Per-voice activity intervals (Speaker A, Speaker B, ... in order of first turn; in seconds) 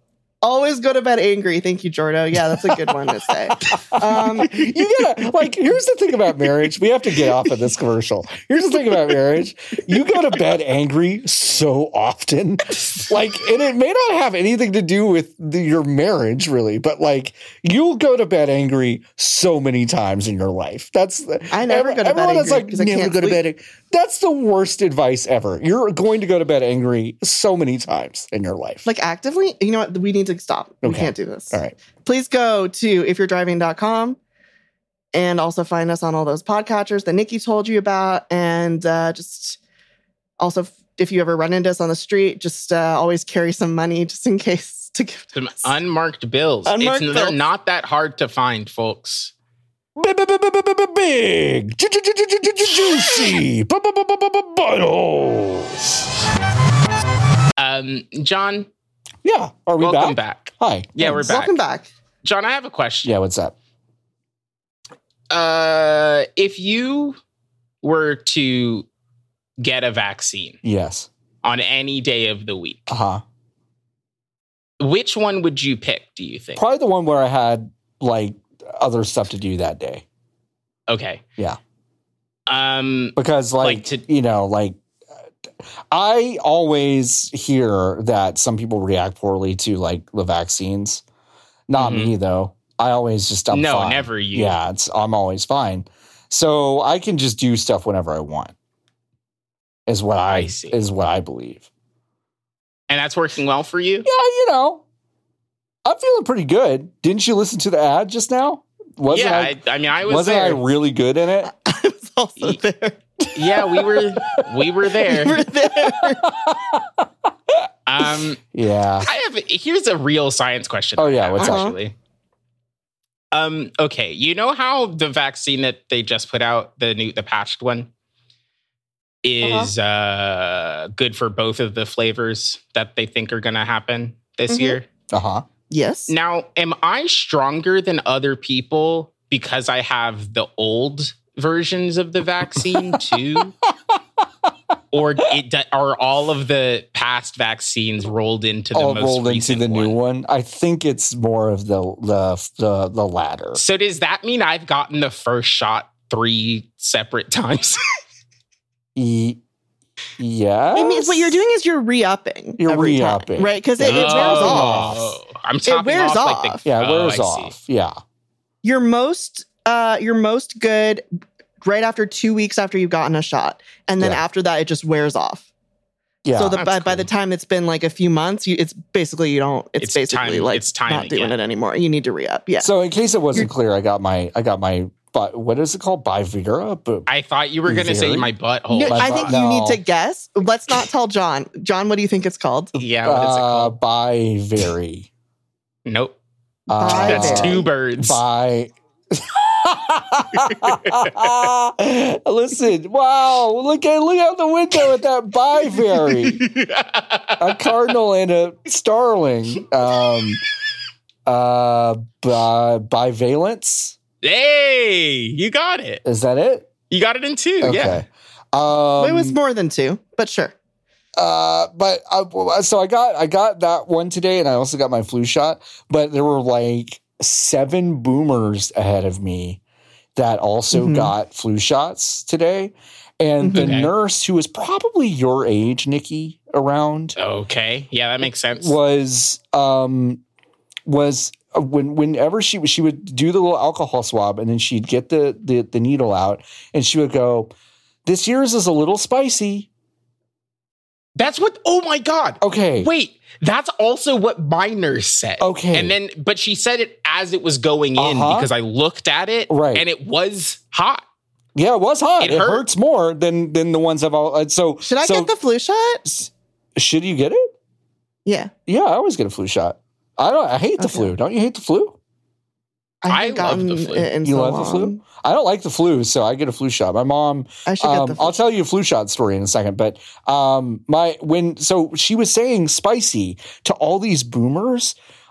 Speaker A: 0.4-4.7, 21.5-23.4, 28.8-34.2, 35.1-39.6, 40.4-45.7, 46.6-47.4, 61.0-61.9, 111.4-113.0, 115.0-116.3, 121.4-121.8, 129.4-129.7, 134.5-134.8, 135.7-136.1, 160.7-165.0, 165.7-166.6, 168.6-171.0, 171.6-175.5, 176.3-182.7, 188.7-192.7, 196.8-197.7, 219.0-220.5, 230.7-231.1, 233.4-233.8, 264.8-266.0, 268.2-268.5, 270.8-271.1, 273.0-275.0, 277.6-278.4
Speaker B: 2.5-28.8, 30.8-31.7, 50.0-56.0, 59.2-61.3, 63.0-63.5, 70.6-71.1, 72.9-73.2, 76.6-80.0, 83.2-84.8, 85.9-91.0, 91.7-98.5, 99.9-101.7, 104.0-104.8, 105.8-111.5, 116.2-119.1, 121.0-121.7, 135.1-135.4, 142.6-143.0, 143.7-144.0, 148.7-153.6, 158.9-159.4, 160.2-161.4, 162.6-165.1, 166.7-168.0, 176.2-176.6, 182.6-187.1, 187.7-188.3, 188.8-189.8, 193.0-195.1, 196.7-206.4, 207.4-210.4, 211.2-214.0, 216.0-216.7, 217.6-219.4, 221.2-229.6, 230.2-237.2, 238.6-240.2, 240.8-247.5, 248.0-249.7, 252.4-252.9, 255.4-255.9, 258.0-258.5, 259.5-259.9, 261.5-265.3, 266.0-267.5, 268.7-271.9, 274.2-284.9
Speaker C: 45.3-49.3, 57.5-58.7, 59.8-61.6, 62.2-63.1, 65.3-67.2, 67.8-68.8, 69.6-70.6, 71.4-72.9, 74.8-76.6, 80.9-81.2, 82.5-84.0, 91.8-92.1, 93.5-94.5, 100.3-100.8, 102.9-104.1, 109.1-110.6, 113.3-115.5, 117.9-118.4, 119.0-121.9, 123.3-127.9, 129.2-134.8, 136.1-143.6, 144.9-149.9, 153.5-157.8, 163.8-167.5, 176.5-177.1, 179.8-181.3, 187.1-189.3, 192.8-193.7, 195.8-196.2, 196.9-198.2, 200.5-201.1, 206.1-207.7, 214.2-216.0, 216.9-218.0, 233.6-233.9, 237.2-238.8, 251.2-261.0, 262.2-262.6, 273.1-274.1